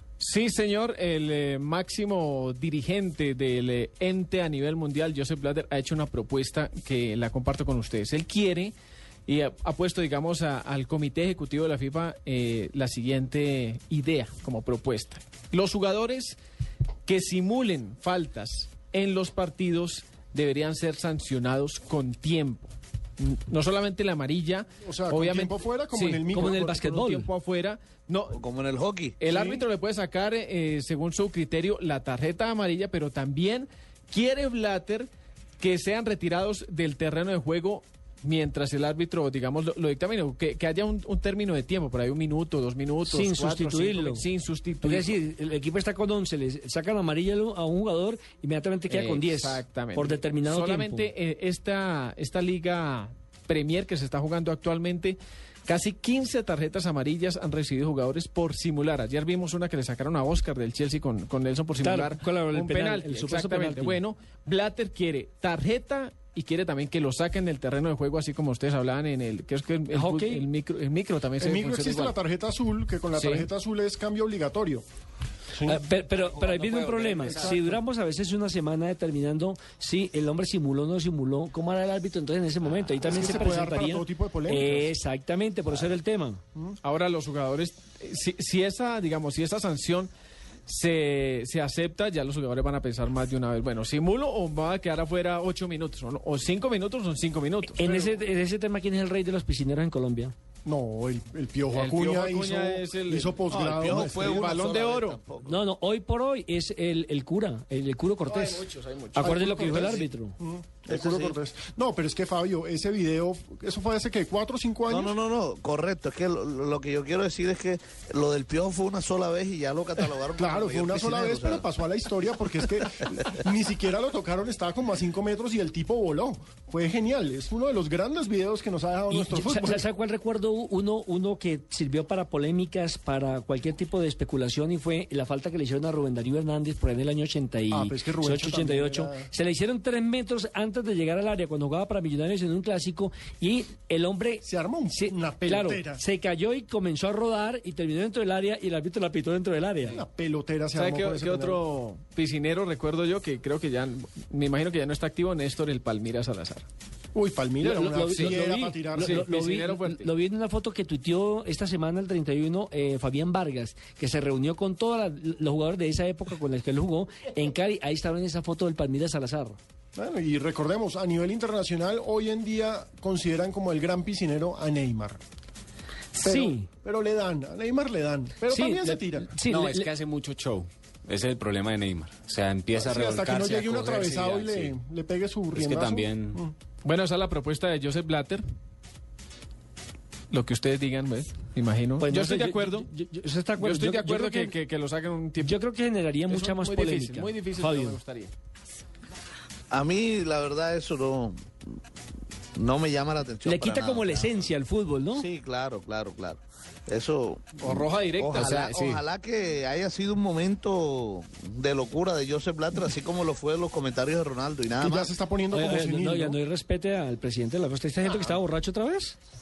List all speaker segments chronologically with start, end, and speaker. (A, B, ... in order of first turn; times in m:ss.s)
0:00.2-0:08.7 A
0:09.3-0:16.4 A
0:17.0-0:28.4 A
0:24.8-0:26.8 B
0:26.3-0:27.3 C
0:28.3-0:29.2 D
0:29.2-0:45.2 A
0:29.3-0:29.6 B
0:43.0-0:44.2 C
0:44.8-0:51.1 C
0:48.9-1:12.1 A
1:01.8-1:04.0 C
1:09.9-1:10.4 C
1:11.4-1:14.8 B
1:13.1-1:13.5 A
1:15.5-1:15.8 B
1:15.6-1:26.4 C
1:16.2-1:17.6 E
1:23.0-1:24.9 B
1:26.8-1:30.1 A
1:30.7-1:37.8 A
1:37.8-1:40.3 C
1:37.8-1:38.2 B
1:40.6-1:44.4 B
1:41.7-1:45.2 A
1:43.5-1:45.6 D
1:45.4-1:50.4 C
1:48.4-1:49.4 A
1:49.1-1:55.1 B
1:50.9-1:51.4 D
1:54.9-2:01.6 D
2:00.3-2:09.8 B
2:09.1-2:30.0 C
2:17.7-2:19.3 B
2:24.4-2:26.0 B
2:29.9-2:31.6 B
2:30.7-2:36.6 A
2:37.1-2:39.2 B
2:37.6-2:49.6 C
2:38.9-2:40.1 A
2:50.0-2:55.2 B
2:56.2-2:56.7 C
2:56.2-2:59.3 B
2:58.5-2:59.9 C
2:59.4-3:04.7 E
3:02.8-3:06.5 B
3:05.5-3:06.4 E
3:06.8-3:08.4 A
3:10.3-3:12.9 A
3:12.0-3:14.6 C
3:13.6-3:15.6 A
3:15.4-3:18.0 C
3:16.3-3:18.3 A
3:19.7-3:21.8 D
3:22.5-3:24.4 D
3:23.4-3:25.2 C
3:25.1-3:35.1 D
3:27.6-3:28.7 A
3:28.3-3:29.0 E
3:34.8-3:36.4 B
3:35.5-3:39.2 C